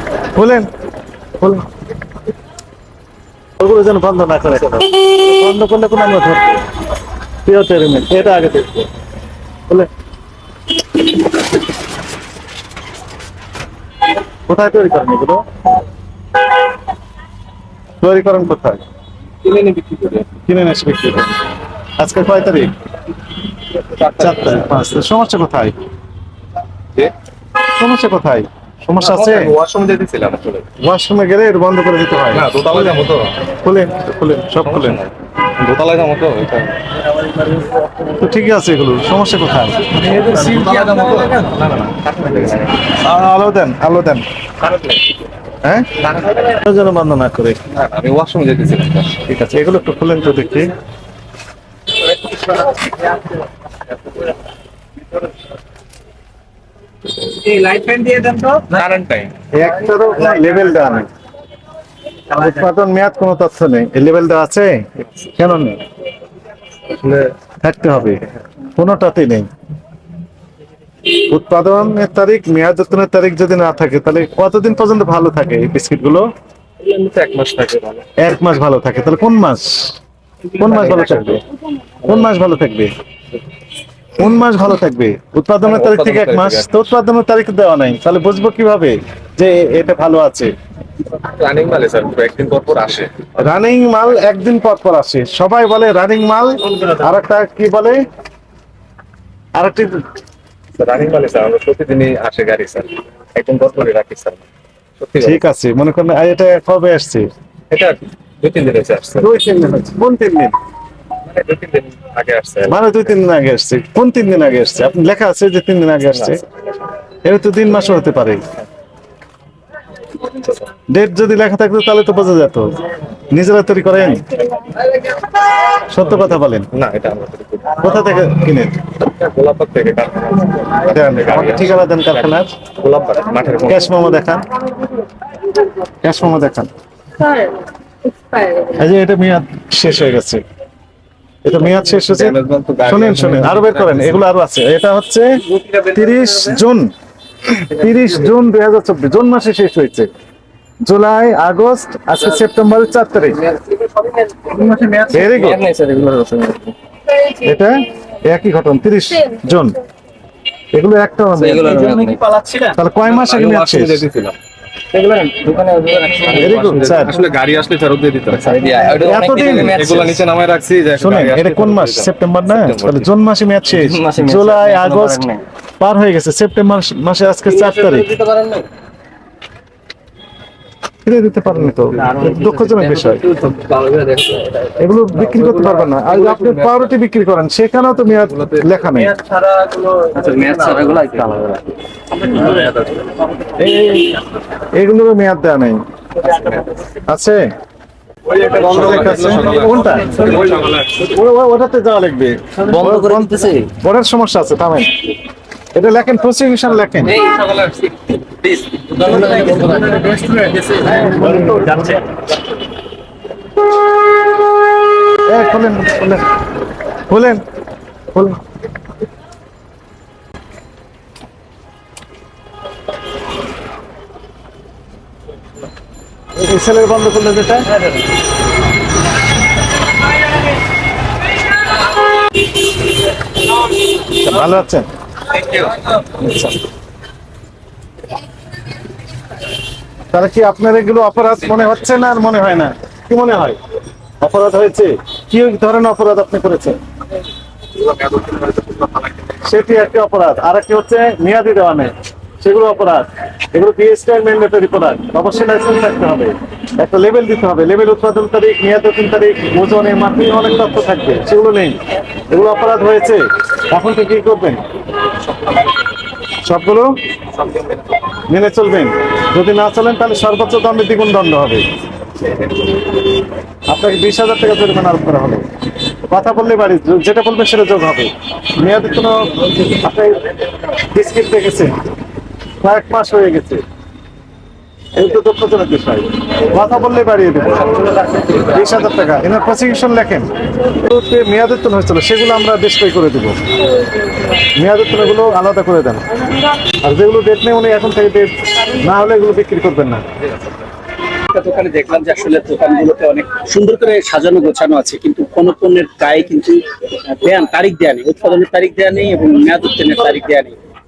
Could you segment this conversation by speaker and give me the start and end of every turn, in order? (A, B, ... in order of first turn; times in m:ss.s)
0:00.3-0:00.7 A
0:03.6-0:06.6 A
0:07.4-0:08.9 A
0:14.5-0:15.4 A
0:18.0-0:18.8 A
0:19.4-0:20.3 B
0:20.4-0:21.4 A
0:22.0-0:22.7 A
0:23.8-0:24.9 B
0:24.2-0:25.8 A
0:27.6-0:29.5 A
0:29.0-0:30.7 B
0:30.8-0:32.9 A
0:32.3-0:33.4 B
0:33.6-0:35.0 A
0:34.6-0:36.8 B
0:38.1-0:40.2 A
0:39.9-0:42.8 B
0:43.0-0:44.2 A
0:44.6-0:45.1 B
0:45.6-0:47.6 A
0:46.0-0:46.4 B
0:47.7-0:49.2 B
0:49.2-0:50.7 A
0:57.4-0:58.6 C
0:58.6-0:59.3 B
0:59.5-1:01.1 A
1:02.3-1:05.8 A
1:07.0-1:07.3 B
1:07.6-1:09.5 A
1:11.2-1:16.3 A
1:16.8-1:18.0 B
1:18.2-1:20.0 A
1:20.6-1:21.4 B
1:20.6-1:21.4 A
1:22.0-1:22.9 A
1:24.2-1:30.5 A
1:25.6-1:26.8 B
1:31.3-1:33.4 B
1:33.4-1:38.0 A
1:39.6-1:40.0 A
1:40.8-1:44.4 B
1:45.0-1:45.4 B
1:45.2-1:47.3 A
1:47.7-1:49.3 B
1:49.2-1:50.5 A
1:51.3-1:53.0 B
1:52.7-1:56.4 A
1:56.1-1:56.4 B
1:57.2-1:58.4 A
2:00.9-2:02.7 A
2:03.3-2:04.2 A
2:05.8-2:06.7 A
2:06.7-2:07.8 B
2:07.8-2:08.8 A
2:09.0-2:13.9 B
2:10.8-2:12.5 A
2:13.6-2:14.4 A
2:16.0-2:16.7 A
2:18.6-2:20.4 A
2:21.4-2:25.3 A
2:21.8-2:24.2 B
2:25.5-2:26.4 C
2:25.8-2:26.9 A
2:27.5-2:30.1 A
2:30.9-2:33.4 A
2:33.5-2:36.7 C
2:35.1-2:35.6 A
2:37.3-2:39.8 A
2:40.7-2:41.9 A
2:41.4-2:42.7 C
2:42.7-2:44.0 A
2:43.0-2:44.4 B
2:44.9-2:47.2 C
2:46.3-2:47.1 A
2:46.4-2:53.1 B
2:48.4-2:50.2 C
2:49.0-2:49.8 A
2:51.0-2:55.2 A
2:53.7-2:55.4 C
2:55.8-2:58.1 A
2:57.5-2:58.7 C
3:01.0-3:03.2 A
3:01.8-3:05.9 C
3:04.8-3:09.2 A
3:06.2-3:06.8 B
3:08.2-3:08.8 B
3:09.2-3:11.6 C
3:12.3-3:12.7 C
3:12.5-3:12.8 B
3:13.5-3:14.2 A
3:14.7-3:15.8 A
3:16.2-3:16.6 B
3:17.0-3:17.5 A
3:18.3-3:21.0 B
3:18.6-3:19.3 C
3:18.6-3:24.9 A
3:22.6-3:23.7 C
3:25.7-3:27.2 A
3:27.0-3:31.9 C
3:29.1-3:29.6 B
3:30.7-3:32.0 A
3:35.3-3:36.2 A
3:37.1-3:37.4 A
3:38.1-3:38.4 A
3:46.4-3:47.8 A
3:54.1-3:54.9 A
3:56.1-3:56.5 A
4:00.1-4:03.6 A
4:04.2-4:06.8 A
4:07.8-4:09.6 B
4:09.4-4:21.8 A
4:22.3-4:24.6 A
4:25.3-4:25.8 B
4:26.5-4:26.9 A
4:27.3-4:27.8 B
4:28.3-4:31.6 A
4:33.7-4:35.4 A
4:36.1-4:40.2 A
4:40.9-4:41.7 A
4:42.6-4:43.6 A
4:45.0-4:53.4 A
4:54.5-4:56.0 A
4:56.8-5:00.0 A
5:01.3-5:10.6 D